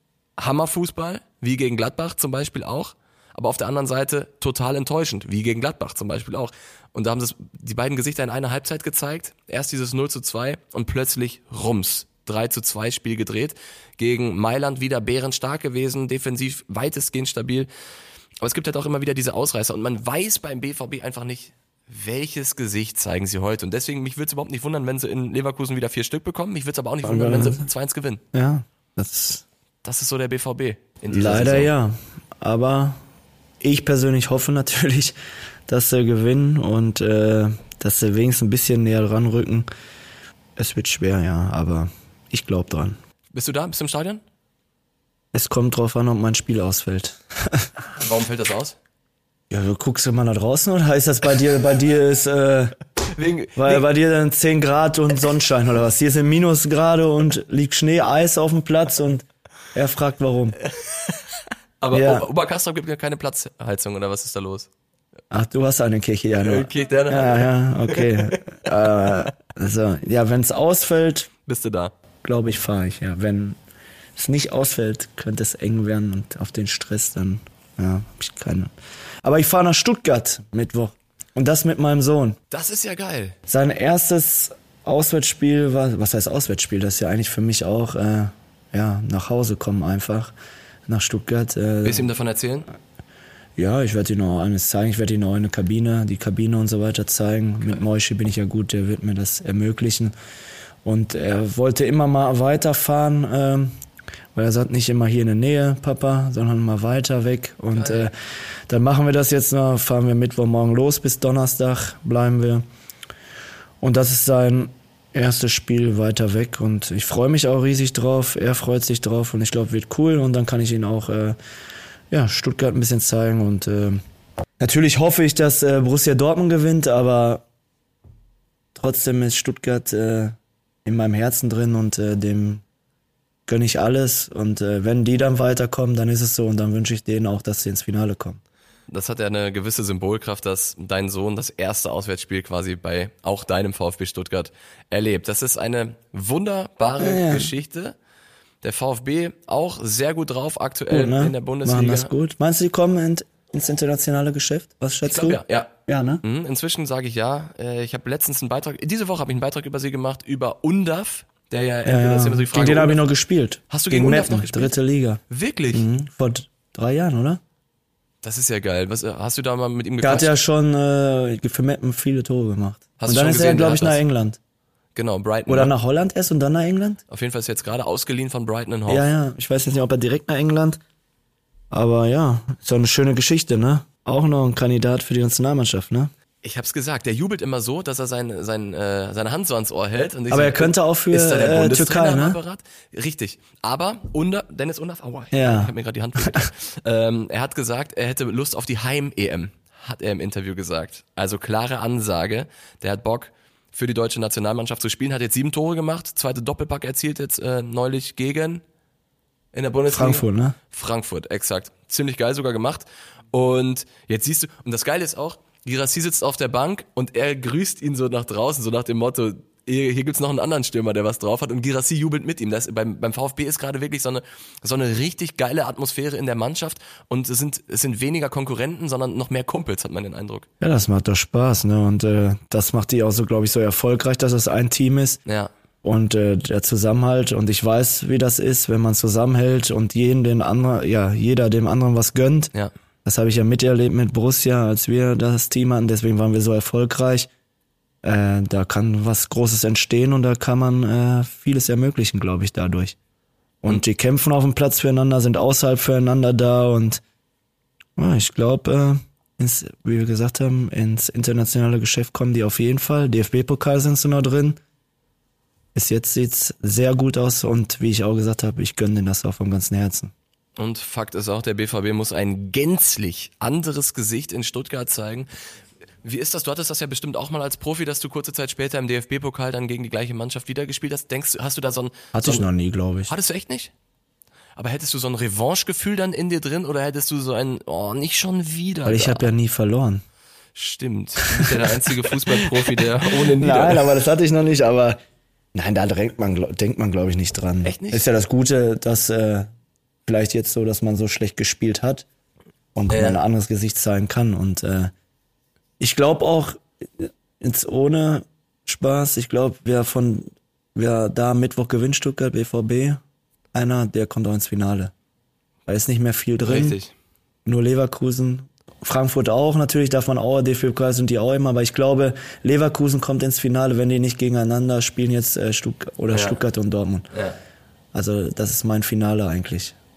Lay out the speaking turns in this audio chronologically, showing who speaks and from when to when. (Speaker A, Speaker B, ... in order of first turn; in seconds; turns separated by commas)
Speaker A: 0.4-17.7, Speaker A: 18.4-28.2, Speaker B: 27.0-27.6, Speaker B: 28.3-29.4, Speaker A: 29.8-31.7, Speaker B: 31.1-33.0, Speaker B: 33.6-35.1, Speaker B: 35.7-39.7, Speaker B: 40.6-43.0, Speaker A: 43.3-44.2, Speaker B: 45.3-47.7, Speaker A: 47.9-48.8, Speaker B: 49.5-52.8, Speaker A: 53.1-53.9, Speaker B: 53.6-60.6, Speaker A: 61.8-64.7, Speaker B: 61.9-62.3, Speaker B: 65.3-71.3, Speaker A: 66.4-68.4, Speaker A: 71.5-71.9, Speaker B: 72.2-73.6, Speaker B: 74.2-78.7, Speaker B: 79.2-82.4, Speaker A: 82.5-83.4, Speaker B: 83.5-90.3, Speaker B: 90.9-92.1, Speaker A: 91.8-92.7, Speaker B: 93.6-100.1, Speaker B: 100.8-103.7, Speaker B: 104.3-108.1, Speaker A: 107.8-108.1, Speaker B: 108.7-112.6, Speaker B: 113.8-121.4, Speaker B: 122.1-124.0, Speaker B: 124.6-127.4, Speaker B: 128.8-132.6, Speaker B: 133.5-138.4, Speaker A: 138.9-148.0, Speaker B: 147.0-147.5, Speaker A: 148.6-152.1, Speaker B: 150.9-156.2, Speaker A: 155.1-163.0, Speaker B: 161.8-165.2, Speaker A: 163.7-164.8, Speaker A: 165.3-165.9, Speaker B: 165.7-167.4, Speaker A: 168.2-170.3, Speaker B: 170.0-174.4, Speaker A: 173.0-174.0, Speaker A: 174.9-175.7, Speaker B: 175.5-177.0, Speaker A: 177.1-179.1, Speaker B: 178.9-180.8, Speaker B: 181.7-186.1, Speaker A: 186.4-208.6, Speaker B: 190.3-192.4, Speaker B: 195.3-196.5, Speaker A: 209.5-230.5, Speaker B: 209.9-210.6, Speaker B: 230.6-235.2, Speaker B: 235.8-242.5, Speaker B: 243.1-247.3, Speaker B: 248.0-253.0, Speaker B: 253.6-257.0, Speaker B: 258.0-264.6, Speaker B: 265.8-270.1, Speaker A: 270.6-275.3, Speaker A: 276.0-282.5, Speaker B: 282.1-283.1, Speaker A: 283.1-283.7, Speaker A: 284.6-289.3, Speaker B: 288.9-290.0, Speaker A: 290.6-293.9, Speaker B: 291.4-295.0, Speaker B: 295.5-299.5, Speaker A: 297.6-298.1, Speaker B: 300.1-302.1, Speaker B: 302.8-304.9, Speaker A: 302.9-303.2, Speaker B: 305.8-313.0, Speaker B: 313.5-314.9, Speaker B: 315.7-316.8, Speaker A: 316.4-316.9, Speaker B: 317.4-327.1, Speaker A: 326.1-326.4, Speaker A: 327.1-327.4, Speaker B: 327.9-329.8